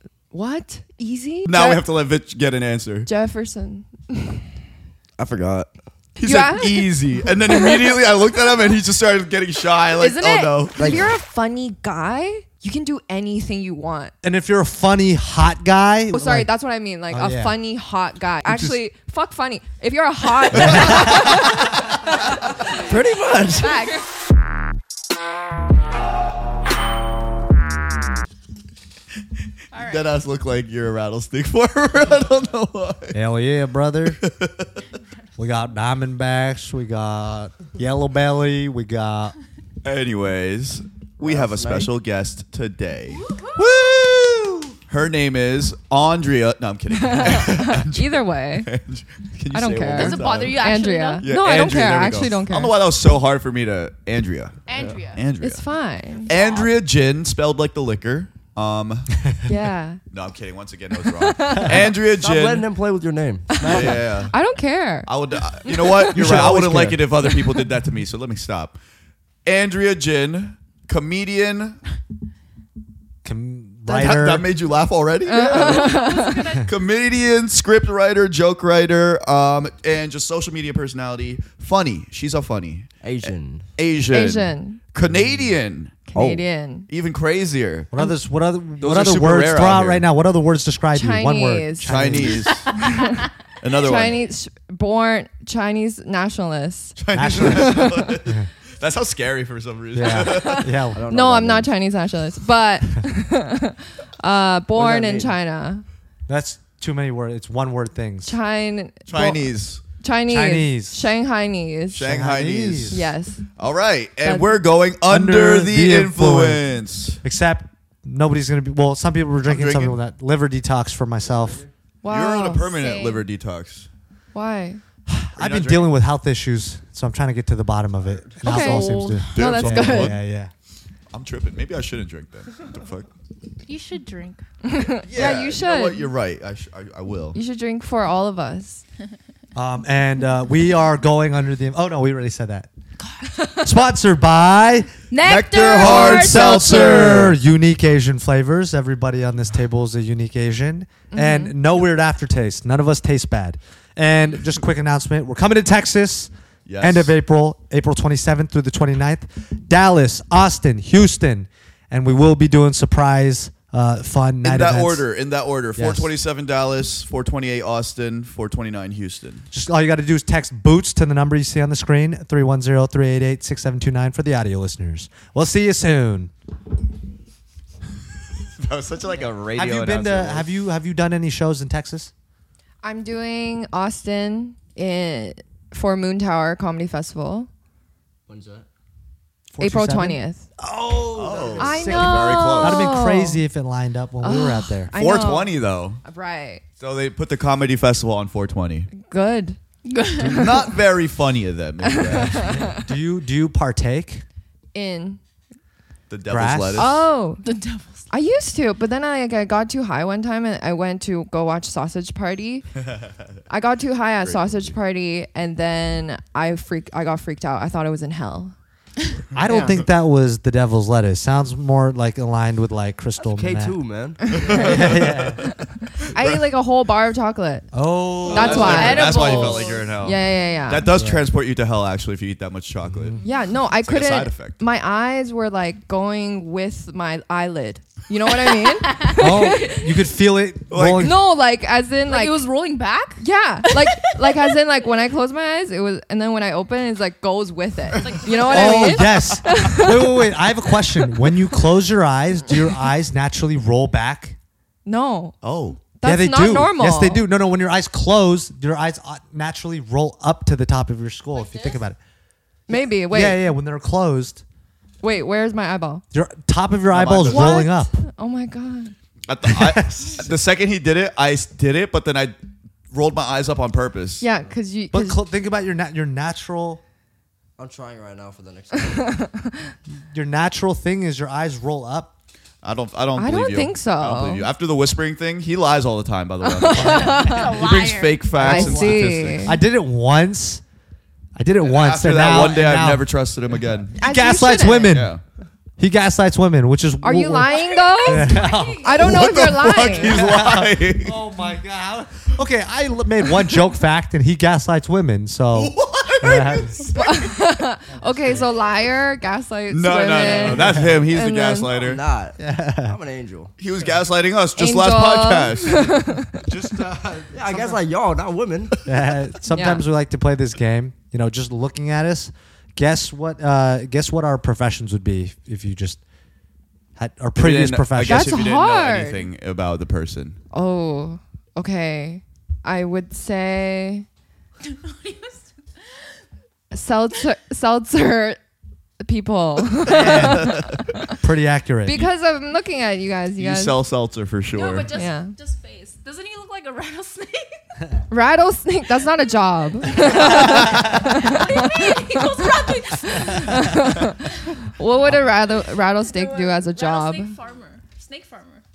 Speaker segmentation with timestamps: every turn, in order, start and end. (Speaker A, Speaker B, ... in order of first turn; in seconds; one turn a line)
Speaker A: 0.3-1.8
Speaker B: 1.4-3.1
Speaker A: 3.0-4.5
Speaker C: 5.2-5.7
Speaker B: 6.2-11.1
Speaker A: 6.2-8.0
Speaker A: 10.0-14.1
Speaker D: 10.2-10.5
Speaker C: 10.8-11.1
Speaker E: 14.2-16.5
Speaker A: 16.1-22.3
Speaker E: 17.1-17.6
Speaker E: 18.4-18.8
Speaker E: 20.5-21.5
Speaker C: 22.6-23.9
Speaker A: 23.6-24.0
Speaker D: 29.7-30.1
Speaker B: 29.8-33.2
Speaker E: 33.1-34.2
Speaker B: 34.2-34.7
Speaker E: 35.4-39.3
Speaker B: 39.8-50.7
Speaker C: 41.2-41.9
Speaker D: 43.2-43.6
Speaker A: 46.9-48.7
Speaker A: 49.5-52.7
Speaker D: 49.9-51.2
Speaker B: 51.2-55.6
Speaker D: 54.7-55.2
Speaker A: 55.4-56.3
Speaker B: 56.3-59.1
Speaker D: 56.3-56.7
Speaker A: 59.5-60.0
Speaker B: 60.1-62.7
Speaker A: 61.2-61.8
Speaker C: 62.1-64.2
Speaker A: 63.6-65.1
Speaker B: 63.7-64.3
Speaker B: 65.0-68.8
Speaker A: 65.6-66.5
Speaker E: 66.1-67.1
Speaker B: 69.4-71.8
Speaker E: 73.2-74.5
Speaker B: 73.9-76.1
Speaker A: 75.2-76.5
Speaker D: 75.5-76.7
Speaker B: 76.6-82.9
Speaker C: 83.0-83.7
Speaker B: 83.8-86.0
Speaker A: 84.1-84.8
Speaker A: 86.1-86.9
Speaker C: 86.1-86.4
Speaker B: 86.9-87.9
Speaker E: 87.9-92.4
Speaker B: 88.8-90.0
Speaker A: 90.9-92.2
Speaker B: 91.9-92.7
Speaker D: 92.7-93.0
Speaker A: 92.8-93.2
Speaker B: 93.6-94.2
Speaker A: 93.8-97.0
Speaker B: 97.0-100.7
Speaker E: 97.1-98.5
Speaker E: 99.9-101.0
Speaker C: 100.9-101.7
Speaker A: 101.1-105.8
Speaker C: 104.7-105.3
Speaker E: 106.3-108.4
Speaker A: 108.2-109.4
Speaker B: 109.1-109.8
Speaker A: 110.0-112.1
Speaker E: 110.3-111.1
Speaker B: 111.9-113.0
Speaker E: 112.0-113.0
Speaker A: 112.9-113.5
Speaker B: 113.6-117.2
Speaker A: 114.2-114.5
Speaker E: 115.1-116.6
Speaker E: 117.2-121.6
Speaker B: 119.5-120.0
Speaker C: 121.4-121.7
Speaker A: 122.0-123.2
Speaker B: 122.0-123.9
Speaker A: 124.3-124.8
Speaker E: 125.1-130.5
Speaker B: 125.4-125.9
Speaker A: 128.4-130.2
Speaker D: 128.7-129.2
Speaker B: 129.3-130.2
Speaker B: 131.1-133.1
Speaker D: 133.7-134.4
Speaker A: 134.6-136.1
Speaker B: 135.1-137.4
Speaker A: 137.3-138.8
Speaker E: 139.5-142.7
Speaker A: 143.4-143.6
Speaker E: 143.6-144.9
Speaker D: 145.1-147.2
Speaker B: 145.2-147.3
Speaker E: 145.8-165.1
Speaker A: 151.1-151.5
Speaker B: 156.7-157.2
Speaker B: 164.4-169.4
Speaker E: 165.8-166.1
Speaker E: 169.5-176.3
Speaker B: 178.6-180.5
Speaker E: 179.6-182.1
Speaker A: 182.8-187.5
Speaker C: 188.3-188.7
Speaker E: 189.5-194.9
Speaker A: 189.6-190.4
Speaker B: 191.1-192.8
Speaker A: 191.6-193.4
Speaker A: 194.2-196.6
Speaker B: 194.9-196.0
Speaker B: 196.8-198.9
Speaker A: 199.0-199.6
Speaker D: 199.8-200.4
Speaker B: 200.2-202.5
Speaker A: 200.2-200.7
Speaker A: 201.8-202.8
Speaker E: 202.3-204.2
Speaker A: 204.7-205.2
Speaker B: 206.1-207.0
Speaker E: 206.3-206.9
Speaker A: 206.8-207.4
Speaker D: 207.4-208.1
Speaker A: 208.1-212.7
Speaker A: 213.5-218.5
Speaker E: 219.3-223.8
Speaker A: 219.4-219.8
Speaker C: 223.2-224.2
Speaker A: 224.2-227.7
Speaker B: 224.3-225.5
Speaker E: 224.5-225.4
Speaker B: 226.1-226.4
Speaker E: 227.7-229.2
Speaker A: 228.3-230.8
Speaker B: 228.3-233.2
Speaker D: 228.4-229.9
Speaker E: 230.9-231.2
Speaker E: 232.9-233.2
Speaker A: 233.2-239.9
Speaker B: 233.8-234.6
Speaker D: 238.8-239.8
Speaker E: 239.2-241.3
Speaker B: 240.7-241.1
Speaker A: 241.0-242.4
Speaker D: 242.1-244.4
Speaker A: 243.2-250.3
Speaker D: 247.9-249.0
Speaker E: 248.5-254.4
Speaker B: 249.5-249.8
Speaker A: 254.8-255.3
Speaker B: 255.4-255.8
Speaker A: 256.0-257.2
Speaker E: 256.0-262.0
Speaker D: 261.3-261.8
Speaker A: 262.7-263.4
Speaker E: 262.7-264.4
Speaker A: 265.0-266.0
Speaker E: 266.1-267.9
Speaker B: 266.9-267.6
Speaker A: 267.3-268.9
Speaker B: 269.3-272.4
Speaker E: 269.4-270.2
Speaker B: 272.9-274.2
Speaker A: 274.2-275.2
Speaker E: 274.9-276.8
Speaker C: 277.6-279.2
Speaker A: 279.1-279.4
Speaker E: 280.1-282.1
Speaker B: 282.6-289.5
Speaker A: 283.1-284.4
Speaker A: 286.4-287.5
Speaker D: 286.6-288.5
Speaker A: 288.4-289.6
Speaker E: 288.4-290.6
Speaker E: 291.4-295.1
Speaker B: 291.6-293.9
Speaker A: 294.0-295.0
Speaker B: 294.8-295.2
Speaker E: 295.8-297.5
Speaker A: 297.0-300.2
Speaker D: 297.5-299.1
Speaker E: 298.0-299.0
Speaker B: 299.0-301.2
Speaker E: 300.0-306.8
Speaker B: 305.5-307.4
Speaker A: 306.9-311.7
Speaker B: 309.7-312.0
Speaker E: 310.4-311.1
Speaker C: 311.7-313.5
Speaker E: 312.4-313.0
Speaker B: 313.6-316.0
Speaker A: 314.6-316.4
Speaker E: 316.4-317.8
Speaker C: 317.3-318.8
Speaker E: 318.8-326.0
Speaker A: 319.5-319.8
Speaker E: 326.9-328.5
Speaker B: 327.4-330.4
Speaker A: 328.0-329.2
Speaker A: 330.5-334.1
Speaker D: 334.6-335.5
Speaker A: 336.7-338.4
Speaker A: 339.0-341.1
Speaker E: 339.9-340.5
Speaker B: 340.0-340.8
Speaker E: 341.2-342.1
Speaker A: 341.9-343.8
Speaker B: 343.4-344.9
Speaker D: 344.5-347.6
Speaker A: 344.9-345.3
Speaker A: 348.1-357.3
Speaker D: 349.9-353.7
Speaker B: 350.3-350.9
Speaker D: 356.0-358.6